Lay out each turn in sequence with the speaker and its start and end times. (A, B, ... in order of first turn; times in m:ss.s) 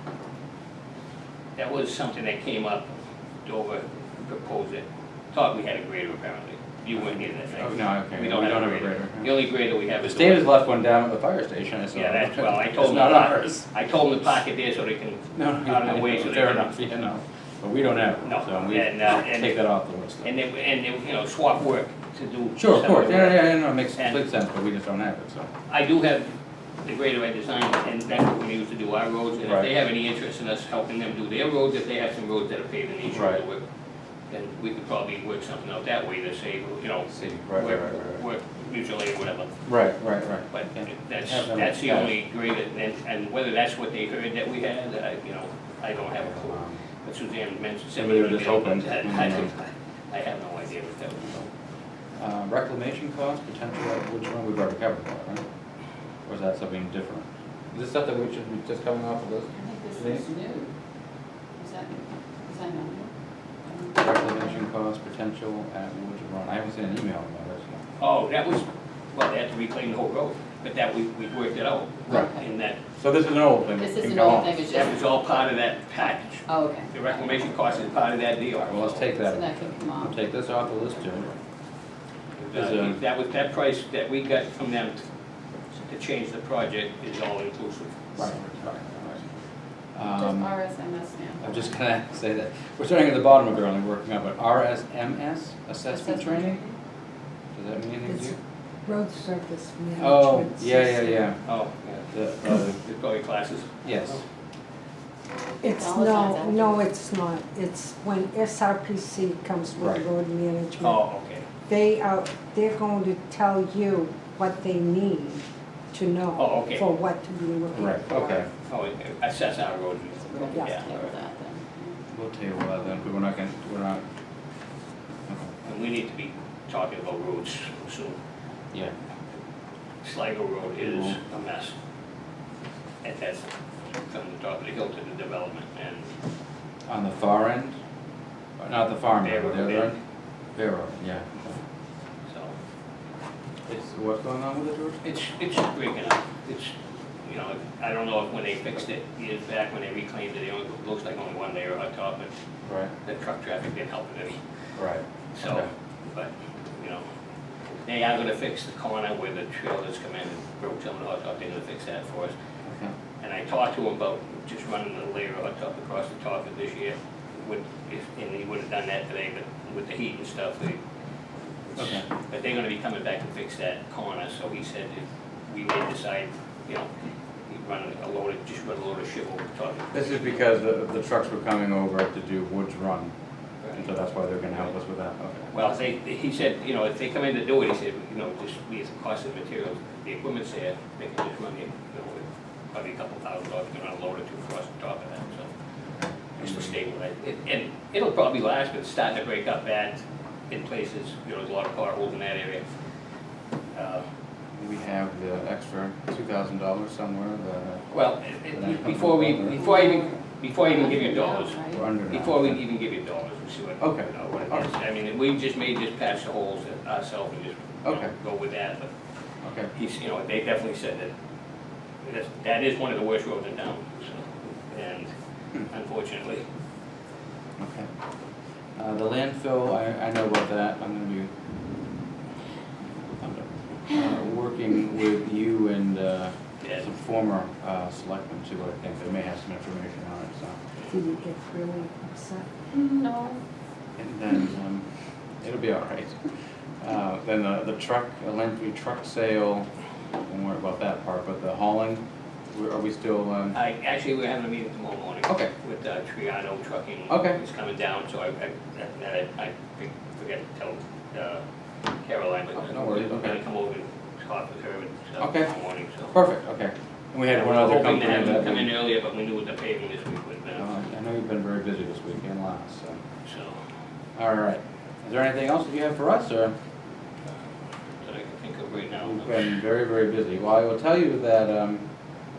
0:01.6-0:10.5 A
0:07.0-0:09.3 B
0:10.0-0:13.7 B
0:11.9-0:16.8 A
0:15.3-0:20.3 B
0:18.2-0:19.5 A
0:20.2-0:24.2 A
0:22.6-0:25.5 B
0:25.7-0:26.3 A
0:26.8-0:33.6 A
0:29.4-0:29.7 B
0:33.1-0:33.4 B
0:34.3-0:39.6 A
0:37.1-0:38.2 B
0:39.6-0:42.1 B
0:40.5-0:51.5 A
0:46.2-0:46.8 B
0:48.0-0:49.5 B
0:52.2-0:55.4 B
0:56.2-1:00.3 B
0:59.6-1:00.7 C
1:01.6-1:03.1 C
1:03.6-1:04.5 C
1:04.0-1:07.8 B
1:08.0-1:12.8 A
1:12.1-1:12.3 B
1:12.1-1:12.4 C
1:12.9-1:14.6 B
1:13.8-1:14.9 C
1:14.6-1:19.0 A
1:16.5-1:16.9 C
1:18.6-1:21.3 B
1:19.2-1:20.2 C
1:22.4-1:25.0 A
1:22.5-1:23.0 B
1:25.8-1:28.2 A
1:28.1-1:29.2 B
1:29.9-1:30.6 B
1:30.2-1:31.5 C
1:31.4-1:36.6 B
1:35.9-1:36.7 C
1:37.5-1:38.4 B
1:38.0-1:41.3 D
1:40.0-1:41.4 B
1:41.4-1:44.2 A
1:42.1-1:42.8 B
1:43.8-1:44.2 B
1:45.6-1:51.0 D
1:45.6-1:46.8 C
1:49.8-1:50.0 B
1:50.8-1:51.4 A
1:51.7-1:58.4 D
1:56.4-1:56.8 A
1:57.7-1:58.5 B
1:58.2-2:01.1 A
2:00.3-2:01.9 C
2:00.5-2:00.9 D
2:02.1-2:04.0 B
2:05.3-2:05.5 B
2:05.6-2:08.2 A
2:10.0-2:11.7 A
2:10.8-2:11.2 B
2:13.0-2:13.5 A
2:14.0-2:16.1 A
2:16.9-2:17.8 B
2:18.6-2:20.0 B
2:19.2-2:19.9 A
2:20.5-2:21.6 B
2:22.3-2:22.5 A
2:23.7-2:25.0 B
2:25.0-2:26.7 A
2:27.2-2:32.3 A
2:32.6-2:32.9 B
2:33.0-2:34.4 A
2:34.8-2:35.7 B
2:35.3-2:37.0 A
2:37.8-2:42.3 A
2:42.6-2:42.9 B
2:43.2-2:50.8 A
2:51.8-2:52.0 B
2:51.8-2:56.9 A
2:57.5-3:00.4 A
2:59.9-3:03.1 B
3:03.7-3:05.7 B
3:05.5-3:15.5 A
3:16.4-3:22.6 A
3:16.4-3:16.8 B
3:23.7-3:24.0 A
3:24.6-3:27.9 B
3:27.9-3:38.9 A
3:28.5-3:29.6 B
3:29.6-3:31.8 C
3:31.7-3:32.6 B
3:33.8-3:34.6 B
3:37.8-3:38.1 B
3:39.4-3:39.7 B
3:39.7-3:41.1 A
3:42.0-3:45.1 A
3:45.6-3:46.4 A
3:47.6-3:47.9 B
3:48.8-3:51.3 B
3:53.2-4:00.6 B
3:56.6-3:56.8 A
4:00.9-4:02.5 D
4:02.7-4:03.4 C
4:04.0-4:04.8 B
4:05.4-4:06.2 B
4:06.8-4:09.7 B
4:10.2-4:13.6 B
4:13.5-4:21.4 A
4:17.1-4:17.4 B
4:22.0-4:26.1 A
4:22.5-4:23.4 B
4:25.2-4:25.5 B
4:26.1-4:28.7 B
4:27.3-4:30.7 A
4:30.6-4:33.0 B
4:33.2-4:33.6 A
4:34.2-4:36.5 B
4:38.0-4:39.6 A
4:39.0-4:41.9 B